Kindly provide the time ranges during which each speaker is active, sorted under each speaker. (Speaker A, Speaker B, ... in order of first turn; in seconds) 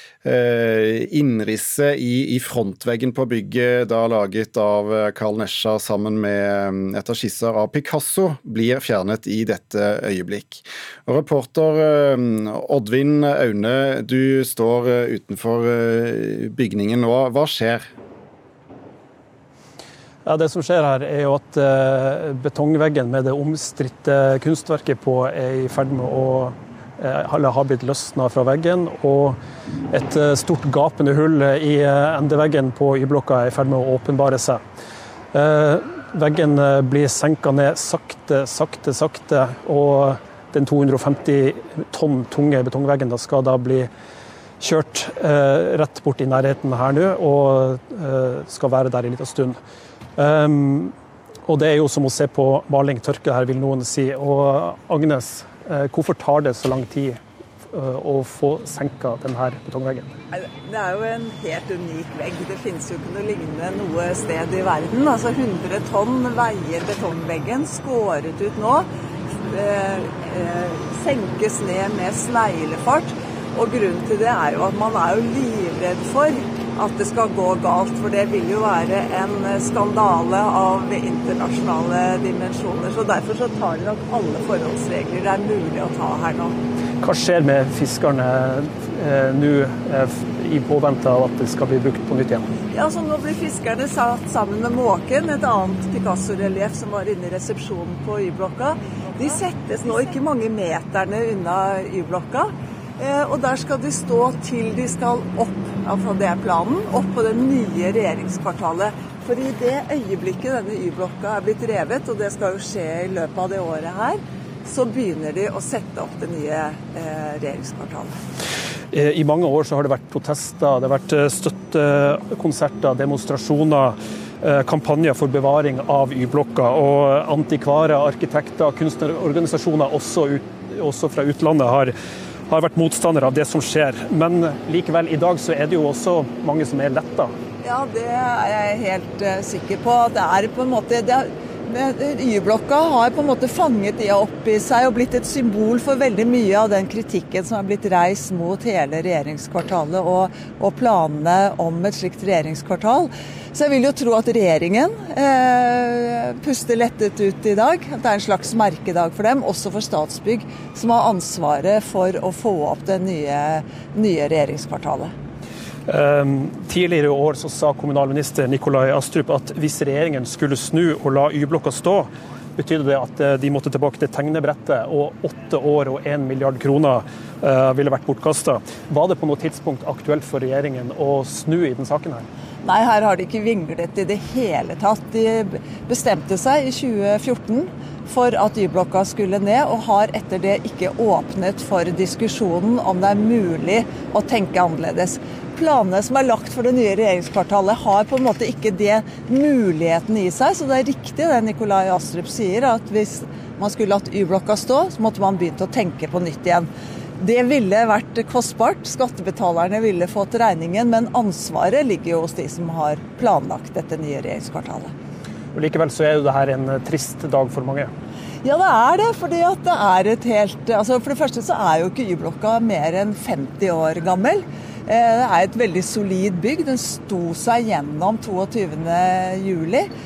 Speaker A: 0.2-17.8
Speaker B: 20.2-29.4, 29.9-34.6, 35.3-43.9, 44.6-49.6, 50.2-50.9, 51.5-57.2, 57.7-60.1, 87.0-92.5, 118.9-131.9, 132.5-137.3, 165.9-182.2, 215.5-217.9
Speaker C: 60.3-68.9, 69.5-86.5, 92.7-118.1, 137.6-165.1, 182.6-214.9, 218.4-229.9